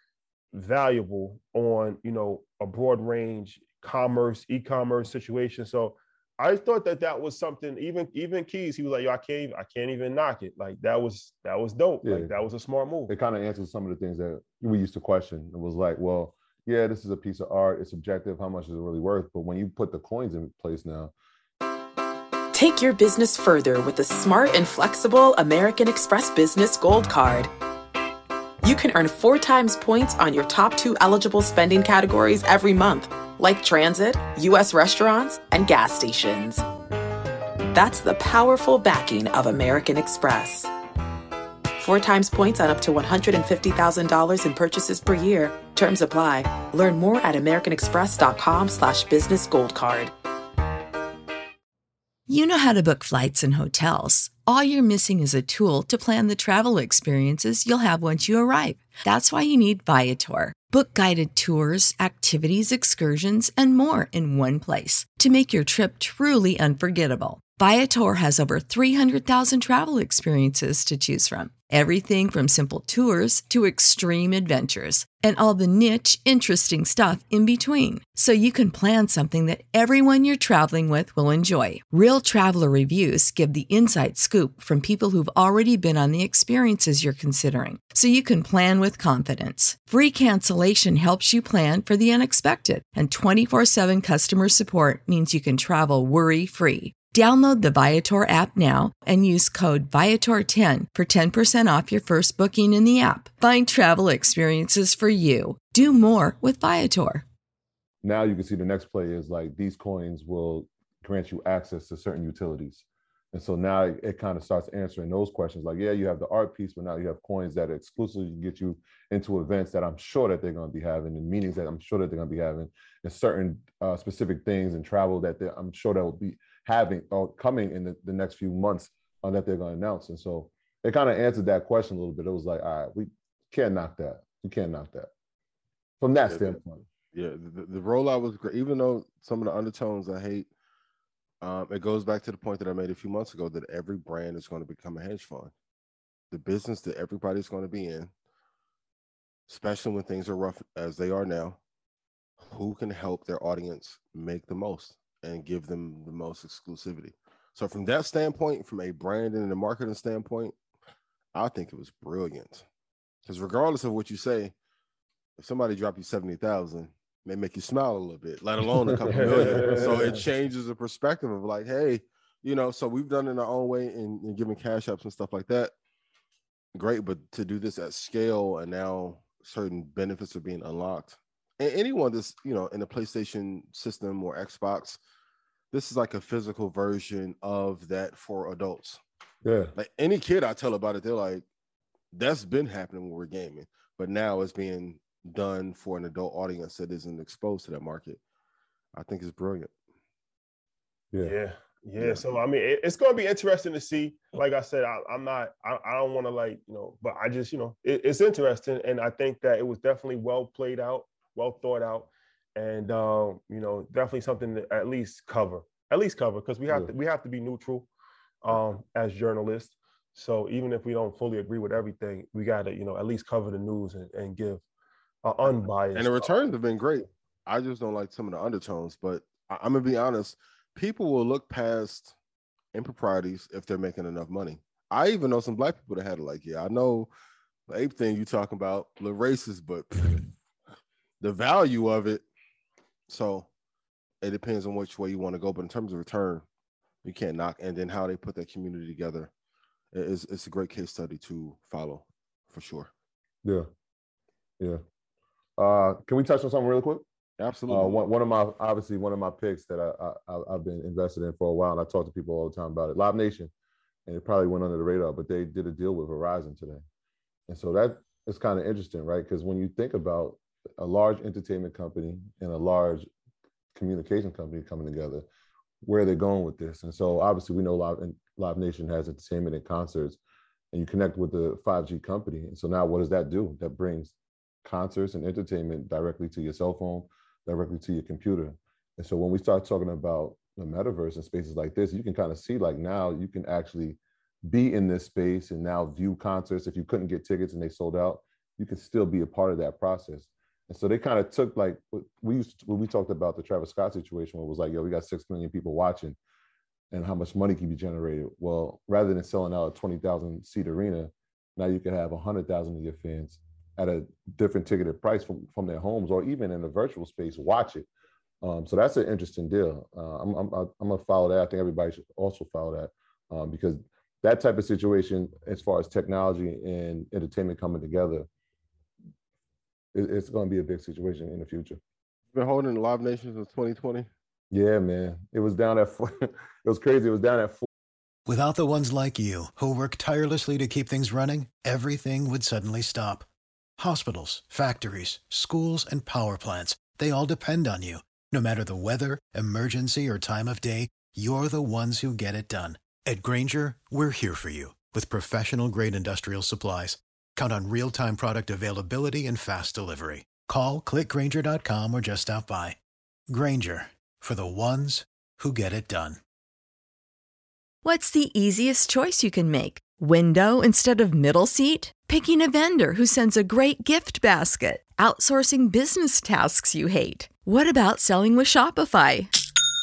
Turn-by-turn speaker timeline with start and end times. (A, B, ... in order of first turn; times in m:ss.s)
0:00.5-0:13.1 A
0:12.0-0:12.3 B
0:13.1-0:21.1 B
0:22.5-0:27.5 C
0:28.6-0:36.6 C
0:37.7-0:40.7 C
0:41.8-0:50.1 C
0:52.3-1:47.2 D
1:48.0-2:15.1 B
2:16.0-2:16.8 B
2:16.3-2:16.6 E
2:17.1-2:20.5 E
2:21.4-2:25.5 E
2:26.3-2:28.1 E
2:29.5-2:31.6 E
2:32.4-2:40.6 E
2:41.3-2:42.6 E
2:43.2-2:44.6 E
2:45.4-2:55.7 E
2:49.1-2:50.1 B
2:56.8-3:05.0 E
3:05.7-3:09.0 E
3:09.4-3:09.7 B
3:09.8-3:11.4 E
3:12.1-3:18.2 E
3:18.9-3:19.7 E
3:21.2-3:37.9 A
3:38.4-3:44.6 A
3:45.2-3:46.3 A
3:45.4-3:52.1 E
3:52.7-3:57.1 E
3:57.7-4:00.2 E
4:01.2-4:02.2 E
4:03.1-4:03.5 E
4:04.2-4:06.4 E
4:07.0-4:09.3 E
4:09.9-4:12.9 E
4:15.6-4:17.0 B
4:17.4-4:18.1 E
4:17.7-4:23.5 B
4:24.1-4:26.8 B
4:27.5-4:33.1 B
4:33.8-4:35.2 B
4:35.8-4:40.2 B
4:40.7-5:06.2 B
5:06.9-5:17.9 B
5:18.4-5:28.3 B
5:29.9-5:31.8 B
5:32.3-5:34.1 E
5:34.5-5:37.6 B
5:38.2-5:43.3 F
5:43.8-6:06.2 F
6:07.8-6:19.3 D